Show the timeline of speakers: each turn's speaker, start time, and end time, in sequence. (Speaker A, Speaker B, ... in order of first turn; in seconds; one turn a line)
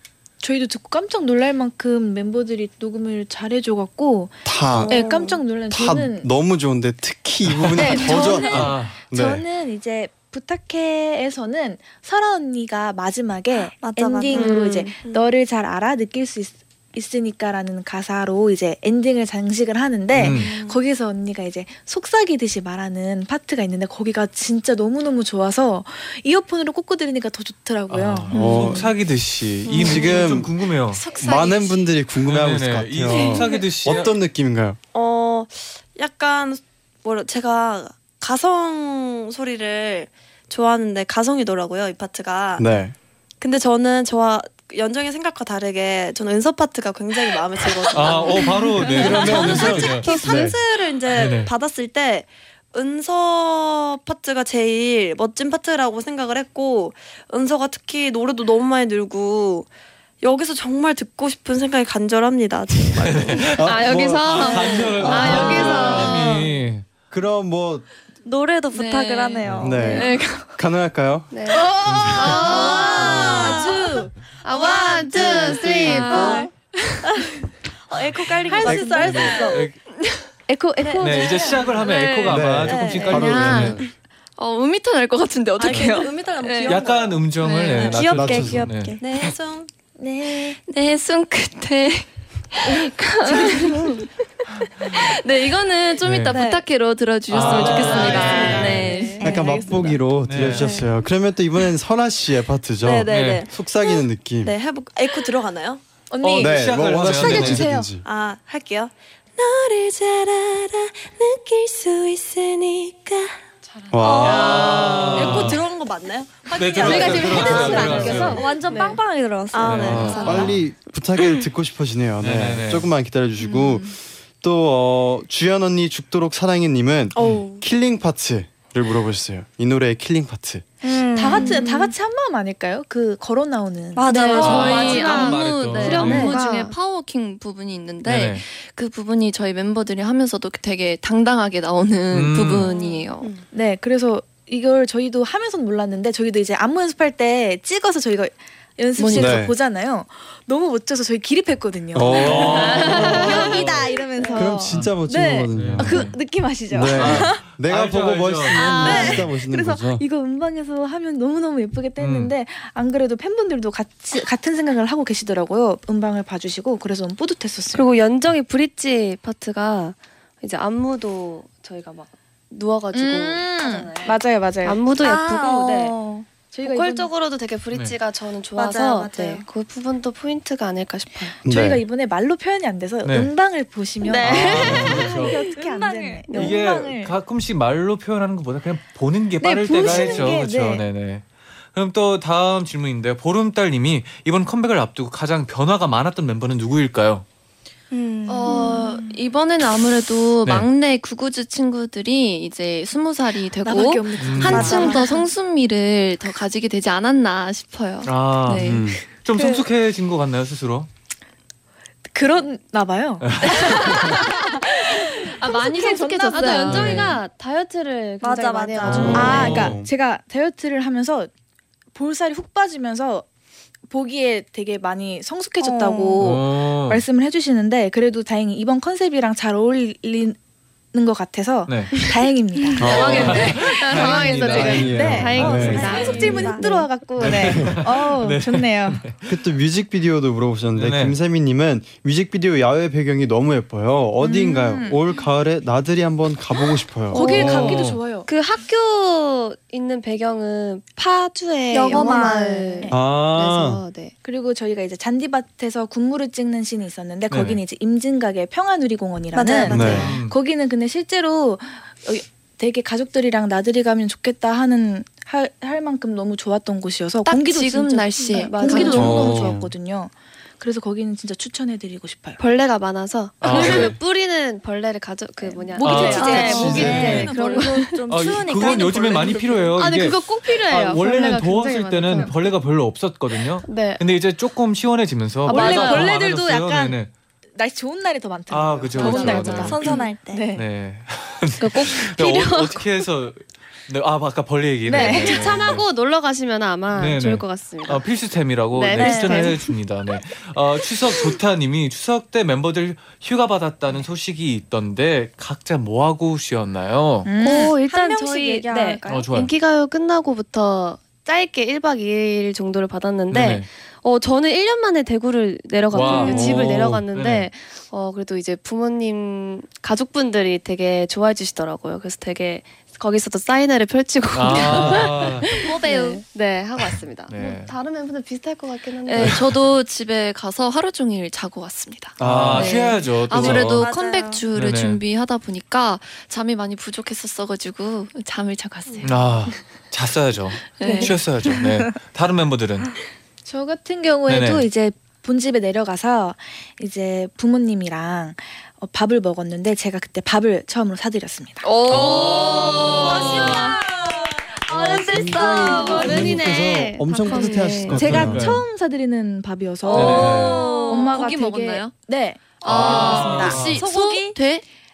Speaker A: 0.4-4.4
Speaker B: 4.4-5.0
Speaker C: 4.7-5.4
Speaker A: 4.9-6.3
Speaker B: 5.7-9.4
Speaker D: 7.5-9.0
Speaker A: 7.8-28.3
Speaker E: 13.8-14.6
Speaker C: 14.3-15.2
Speaker F: 14.4-14.8
Speaker D: 20.1-20.5
Speaker C: 20.2-20.8
Speaker D: 27.9-31.0
Speaker B: 28.3-28.9
Speaker B: 29.7-30.5
Speaker G: 29.7-30.3
Speaker G: 30.9-31.8
Speaker B: 31.2-34.8
Speaker D: 32.2-34.1
Speaker C: 33.2-34.0
Speaker G: 33.3-33.7
Speaker C: 34.9-42.7
Speaker B: 42.6-43.0
Speaker C: 43.4-59.7
Speaker D: 47.9-50.1
Speaker B: 49.0-50.6
Speaker D: 51.1-51.5
Speaker C: 60.2-63.6
Speaker D: 63.0-66.8
Speaker B: 63.6-66.0
Speaker F: 63.6-66.4
Speaker C: 64.5-66.4
Speaker G: 65.2-66.4
Speaker B: 67.1-67.9
Speaker E: 68.2-70.1
Speaker G: 68.7-70.6
Speaker D: 69.5-69.8
Speaker B: 69.6-71.3
Speaker F: 71.3-71.7
Speaker D: 71.8-73.3
Speaker C: 71.9-76.5
Speaker G: 72.1-77.0
Speaker E: 74.9-76.5
Speaker F: 75.2-76.2
Speaker C: 77.9-79.7
Speaker E: 78.3-79.6
Speaker A: 78.6-79.3
Speaker D: 79.0-79.8
Speaker A: 80.5-81.6
Speaker C: 80.8-81.9
Speaker D: 81.0-83.8
Speaker G: 81.7-82.6
Speaker B: 82.3-83.8
Speaker C: 82.6-83.6
Speaker G: 83.1-83.8
Speaker G: 84.4-86.9
Speaker C: 85.6-89.7
Speaker D: 85.7-86.0
Speaker D: 86.7-89.0
Speaker G: 87.4-88.0
Speaker E: 87.9-89.3
Speaker B: 88.1-88.7
Speaker A: 90.0-90.6
Speaker G: 90.5-94.1
Speaker A: 93.3-93.8
Speaker G: 94.9-99.2
Speaker D: 96.0-96.4
Speaker C: 96.3-96.6
Speaker D: 97.3-99.0
Speaker C: 97.3-100.9
Speaker A: 99.2-99.7
Speaker E: 99.2-99.6
Speaker B: 99.2-104.5
Speaker D: 100.2-100.8
Speaker C: 102.8-105.8
Speaker D: 103.1-103.4
Speaker A: 106.1-107.9
Speaker D: 106.2-107.7
Speaker B: 106.4-108.1
Speaker C: 108.0-113.4
Speaker B: 113.9-115.5
Speaker C: 114.0-118.4
Speaker E: 114.0-114.8
Speaker D: 114.2-115.6
Speaker D: 116.5-118.5
Speaker A: 116.8-118.4
Speaker E: 116.8-120.2
Speaker F: 117.4-119.0
Speaker C: 119.5-120.6
Speaker D: 119.6-120.6
Speaker B: 119.8-130.7
Speaker F: 120.0-120.4
Speaker G: 120.0-120.4
Speaker D: 122.2-122.9
Speaker A: 123.4-124.0
Speaker C: 127.2-127.7
Speaker E: 130.8-131.9
Speaker A: 131.1-134.4
Speaker E: 133.9-135.4
Speaker F: 134.1-136.8
Speaker G: 134.1-143.3
Speaker D: 134.4-136.4
Speaker D: 138.1-138.4
Speaker D: 142.1-142.7
Speaker F: 142.6-143.4
Speaker A: 143.5-157.4
Speaker G: 149.0-149.4
Speaker B: 149.1-149.6
Speaker B: 151.9-156.1
Speaker D: 152.1-153.7
Speaker G: 152.6-153.2
Speaker D: 155.6-156.2
Speaker B: 156.7-160.0
Speaker D: 156.9-159.0
Speaker A: 158.5-167.9
Speaker D: 162.0-162.3
Speaker F: 167.7-175.9
Speaker A: 172.9-177.1
Speaker E: 175.0-176.3
Speaker F: 176.6-181.4
Speaker D: 177.7-178.0
Speaker E: 178.6-179.5
Speaker A: 181.4-187.2
Speaker B: 181.4-181.8
Speaker D: 183.0-183.3
Speaker F: 184.1-185.1
Speaker E: 184.1-186.4
Speaker D: 184.2-185.4
Speaker D: 186.3-197.2
Speaker A: 189.4-190.8
Speaker E: 197.9-199.0
Speaker G: 198.3-208.9
Speaker A: 198.5-198.8
Speaker A: 203.7-205.3
Speaker D: 204.2-204.8
Speaker E: 204.5-205.2
Speaker C: 204.5-205.0
Speaker D: 208.1-210.9
Speaker B: 208.6-209.0
Speaker A: 212.1-217.0
Speaker D: 213.2-214.2
Speaker G: 215.4-217.2
Speaker F: 215.4-219.5
Speaker D: 216.7-217.2
Speaker E: 218.2-219.5
Speaker D: 218.8-219.8
Speaker A: 219.1-221.3
Speaker B: 219.2-219.9
Speaker A: 221.9-223.3
Speaker A: 223.9-230.4
Speaker E: 225.6-226.2
Speaker D: 226.2-227.0
Speaker A: 230.9-232.9
Speaker D: 231.7-231.9
Speaker B: 232.8-233.6
Speaker G: 232.8-234.5
Speaker F: 232.8-236.9
Speaker D: 232.9-235.9
Speaker B: 234.5-235.9
Speaker A: 234.9-239.0
Speaker E: 235.3-236.9
Speaker C: 235.7-236.6
Speaker D: 237.2-239.3
Speaker B: 237.2-237.9
Speaker B: 239.3-247.7
Speaker D: 240.8-241.2
Speaker A: 244.2-245.0
Speaker A: 247.1-248.3
Speaker F: 247.1-254.1
Speaker D: 247.3-248.0
Speaker C: 251.7-252.8
Speaker E: 251.7-252.8
Speaker B: 252.9-253.8
Speaker A: 254.2-272.4
Speaker D: 257.3-257.6
Speaker E: 259.3-260.1
Speaker B: 259.7-260.1
Speaker D: 259.8-260.4
Speaker G: 267.3-269.2
Speaker F: 268.2-269.5
Speaker B: 268.9-269.7
Speaker F: 272.4-278.1
Speaker D: 273.4-274.0
Speaker E: 275.4-279.8
Speaker A: 275.8-277.3
Speaker D: 275.8-277.3
Speaker B: 276.2-277.3
Speaker C: 276.4-277.8
Speaker D: 278.1-287.1
Speaker F: 278.6-278.9
Speaker F: 279.7-282.5
Speaker F: 283.4-284.0
Speaker F: 285.5-286.1
Speaker A: 285.5-287.0
Speaker A: 287.6-290.6
Speaker D: 288.5-289.9
Speaker F: 289.0-290.0
Speaker E: 289.1-290.5
Speaker D: 290.6-295.9
Speaker F: 291.6-293.1
Speaker F: 294.9-298.0
Speaker A: 294.9-295.5
Speaker D: 296.9-307.3
Speaker F: 298.7-299.7
Speaker E: 298.9-299.6
Speaker A: 307.2-307.8
Speaker F: 307.4-329.6
Speaker E: 307.6-309.3
Speaker D: 309.1-309.5
Speaker D: 313.3-313.7
Speaker D: 315.9-317.5
Speaker B: 316.2-316.7
Speaker D: 324.3-325.6
Speaker E: 325.9-326.2
Speaker D: 327.3-327.7
Speaker G: 329.1-339.4
Speaker D: 329.2-329.4
Speaker B: 332.2-332.9
Speaker D: 332.2-333.9
Speaker E: 333.3-334.5
Speaker D: 334.5-335.0
Speaker D: 339.0-342.9
Speaker G: 340.8-341.3
Speaker A: 340.8-341.1
Speaker A: 343.4-351.7
Speaker D: 344.3-344.7
Speaker G: 351.6-353.9
Speaker D: 351.9-353.3
Speaker E: 353.0-354.3
Speaker F: 353.0-353.4
Speaker G: 354.7-356.4
Speaker F: 354.7-358.1
Speaker B: 355.0-358.5
Speaker E: 355.1-356.0
Speaker A: 355.7-356.1
Speaker A: 357.3-364.4
Speaker D: 358.0-358.6
Speaker D: 359.9-360.7
Speaker G: 359.9-361.9
Speaker C: 360.1-361.0
Speaker E: 360.4-361.0
Speaker G: 362.6-364.6
Speaker D: 362.6-363.8